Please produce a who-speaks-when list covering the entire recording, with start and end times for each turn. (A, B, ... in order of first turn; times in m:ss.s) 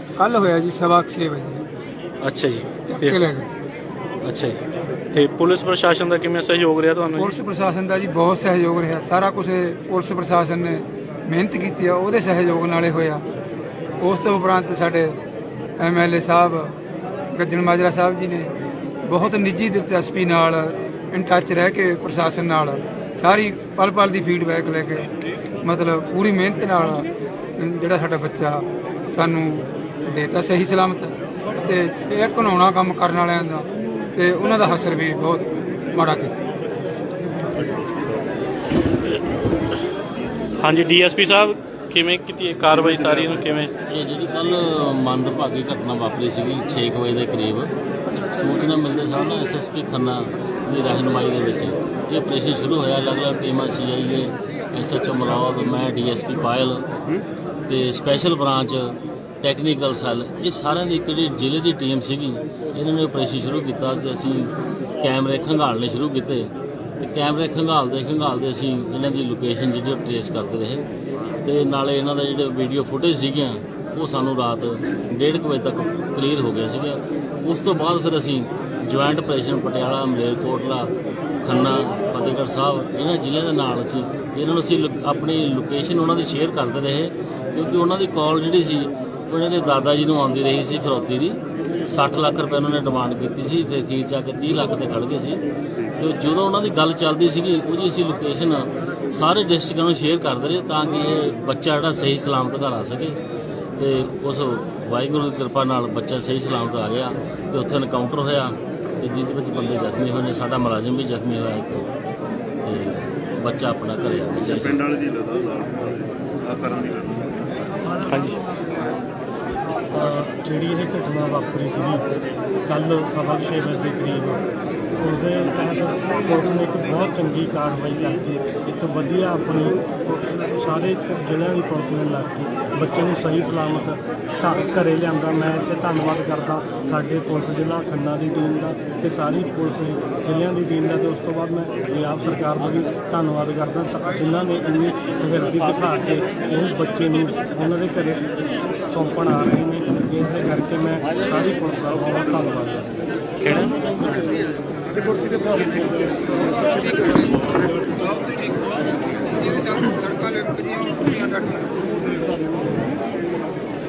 0:00.2-0:01.6 A
0:02.2-0:03.2 B
0:02.9-0:03.5 A
0:04.2-0:04.6 B
0:05.1-0:07.3 B
0:07.2-0:13.2 A
0:14.0-0:15.2 A
0:15.8-0:16.7 A
0:17.3-0:18.5 A
0:19.0-0:25.1 A
0:25.6-0:36.3 A
0:40.6-0:43.7 B
0:43.9-0:47.7 C
0:48.2-0:56.9 C
0:57.7-1:10.8 C
1:11.4-1:20.9 C
1:21.4-1:35.4 C
1:36.0-1:43.2 C
1:43.8-1:51.8 C
1:52.6-1:54.9 C
1:54.6-1:57.3 D
1:58.0-1:58.4 B
1:59.9-2:02.0 E
2:02.7-2:04.4 E
2:05.0-2:28.2 E
2:28.9-2:32.9 E
2:33.4-2:33.7 B
2:35.6-2:41.8 A